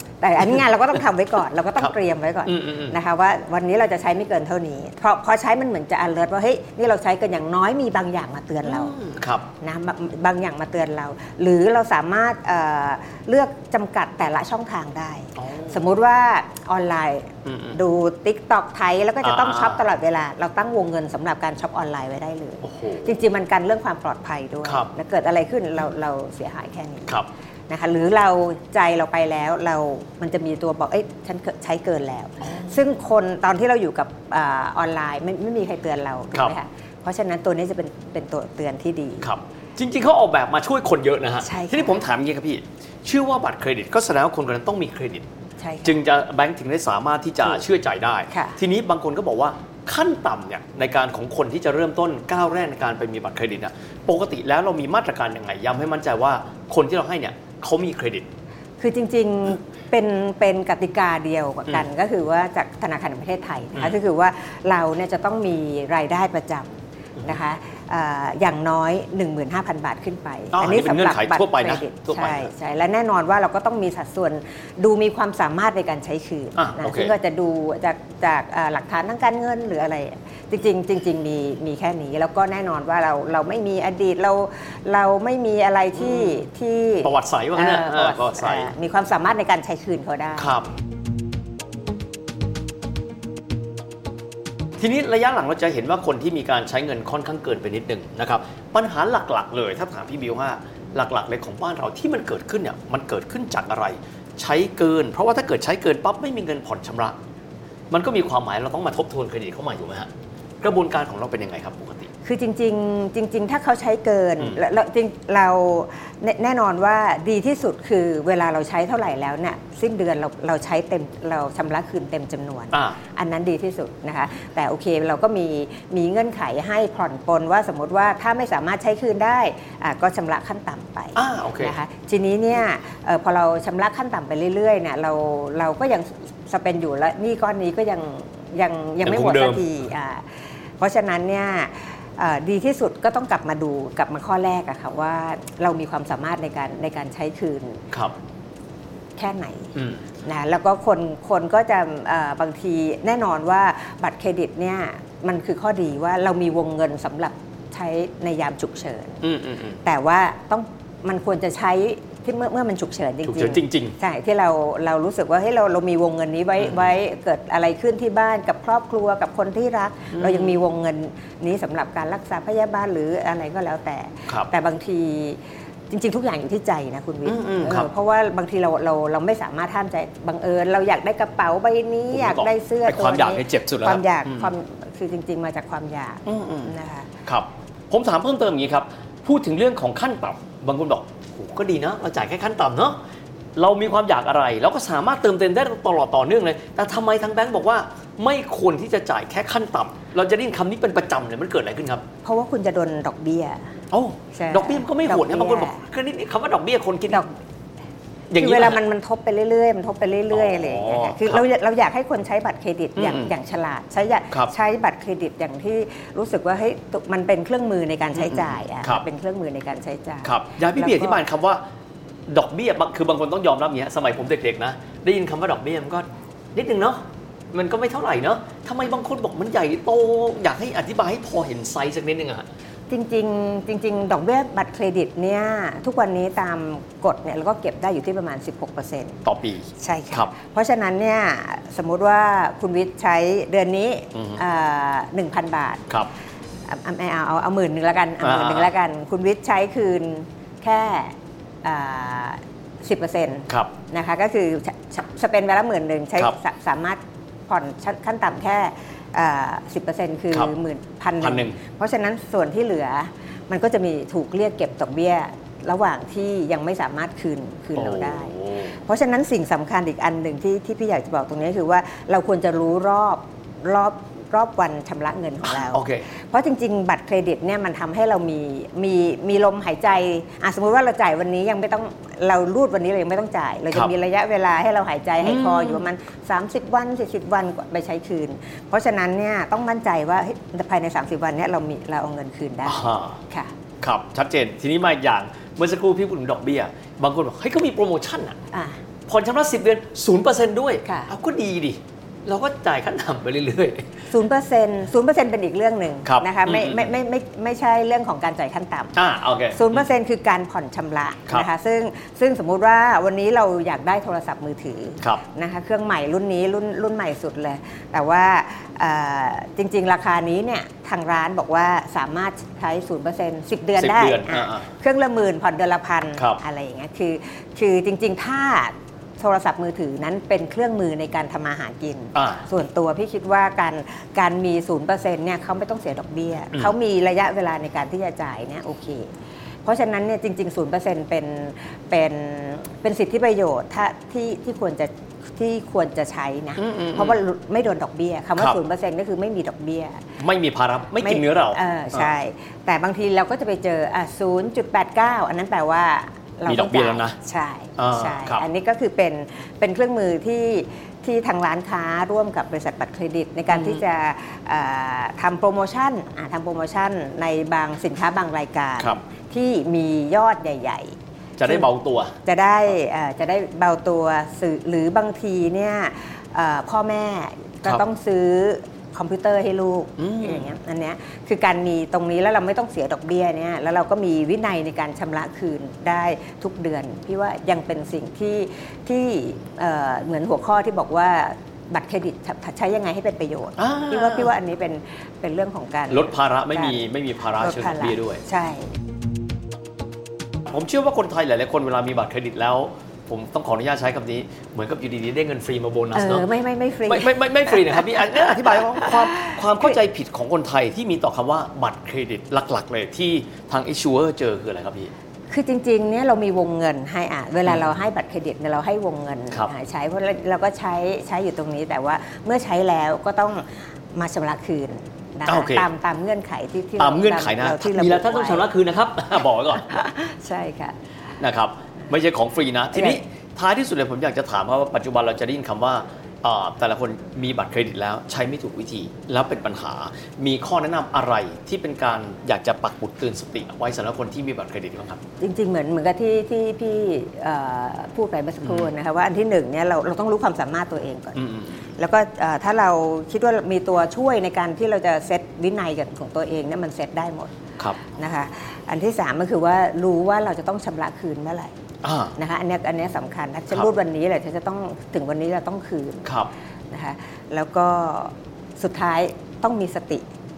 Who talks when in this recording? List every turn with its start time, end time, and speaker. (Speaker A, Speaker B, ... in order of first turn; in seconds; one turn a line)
Speaker A: 0.2-8.9
Speaker B: 2.5-3.0
Speaker B: 8.6-9.5
Speaker A: 9.6-27.1
Speaker B: 15.4-15.8
Speaker B: 17.4-17.8
Speaker B: 19.2-19.8
Speaker B: 22.6-23.1
Speaker B: 24.6-24.9
Speaker A: 27.7-39.3
Speaker B: 32.4-32.7
Speaker B: 39.2-45.2
Speaker A: 41.4-42.0
Speaker A: 45.6-46.0
Speaker B: 45.8-58.3
Speaker A: 48.3-48.6
Speaker A: 58.8-90.5
Speaker B: 70.5-72.5
Speaker B: 76.5-77.1
Speaker B: 87.0-88.7
Speaker B: 90.4-90.7
Speaker B: 94.8-107.2
Speaker B: 107.9-110.1
Speaker B: 110.6-112.1
Speaker A: 112.2-140.3
Speaker B: 122.7-123.0
Speaker B: 131.2-131.8
Speaker B: 139.0-139.7
Speaker A: 140.8-147.8
Speaker A: 149.2-149.7
Speaker B: 149.7-150.0
Speaker A: 150.2-159.2
Speaker B: 159.2-159.8
Speaker A: 159.8-187.1
Speaker B: 163.2-163.9
Speaker B: 170.1-170.6
Speaker B: 177.2-177.9
Speaker B: 182.1-184.5
Speaker B: 186.2-186.7
Speaker B: 187.2-193.0
Speaker B: 193.6-202.0
Speaker A: 202.2-203.7
Speaker B: 203.9-207.2
Speaker A: 204.3-205.8
Speaker B: 208.3-208.8
Speaker A: 208.4-221.2
Speaker B: 210.3-211.4
Speaker B: 212.9-213.3
Speaker B: 218.1-219.0
Speaker B: 220.2-221.6
Speaker B: 222.3-232.5
Speaker A: 232.9-239.2
Speaker B: 239.2-240.3
Speaker A: 239.8-245.8
Speaker B: 244.1-244.4
Speaker A: 246.7-293.5
Speaker B: 248.2-248.7
Speaker B: 261.2-261.6
Speaker B: 267.8-268.8
Speaker B: 275.4-276.0
Speaker B: 285.2-285.9
Speaker B: 292.6-293.2
Speaker B: 293.8-298.4
Speaker A: 298.5-298.8
Speaker B: 299.1-303.9
Speaker A: 300.8-301.1
Speaker A: 304.1-308.9
Speaker B: 306.0-306.9
Speaker B: 308.9-309.9
Speaker A: 309.5-339.1
Speaker B: 323.8-324.6
Speaker B: 332.1-332.4
Speaker A: 339.6-350.0
Speaker B: 346.6-347.2
Speaker B: 350.2-352.1
Speaker A: 351.0-371.7
Speaker B: 356.4-357.1
Speaker B: 357.8-358.4
Speaker B: 363.5-363.8
Speaker B: 371.4-372.1
Speaker A: 372.2-396.8
Speaker B: 380.0-380.5
Speaker B: 393.6-394.3
Speaker B: 395.9-398.2
Speaker A: 397.4-398.7
Speaker B: 400.4-406.3
Speaker A: 405.9-407.8
Speaker B: 406.9-414.9
Speaker A: 415.3-428.5
Speaker B: 425.3-425.7
Speaker B: 426.8-429.7
Speaker A: 429.6-430.7
Speaker B: 431.2-445.0
Speaker A: 445.2-457.3
Speaker B: 448.4-448.7
Speaker B: 451.1-451.7
Speaker A: 457.9-461.5
Speaker B: 461.8-462.1
Speaker A: 462.1-466.1
Speaker B: 466.0-466.3
Speaker A: 466.7-470.1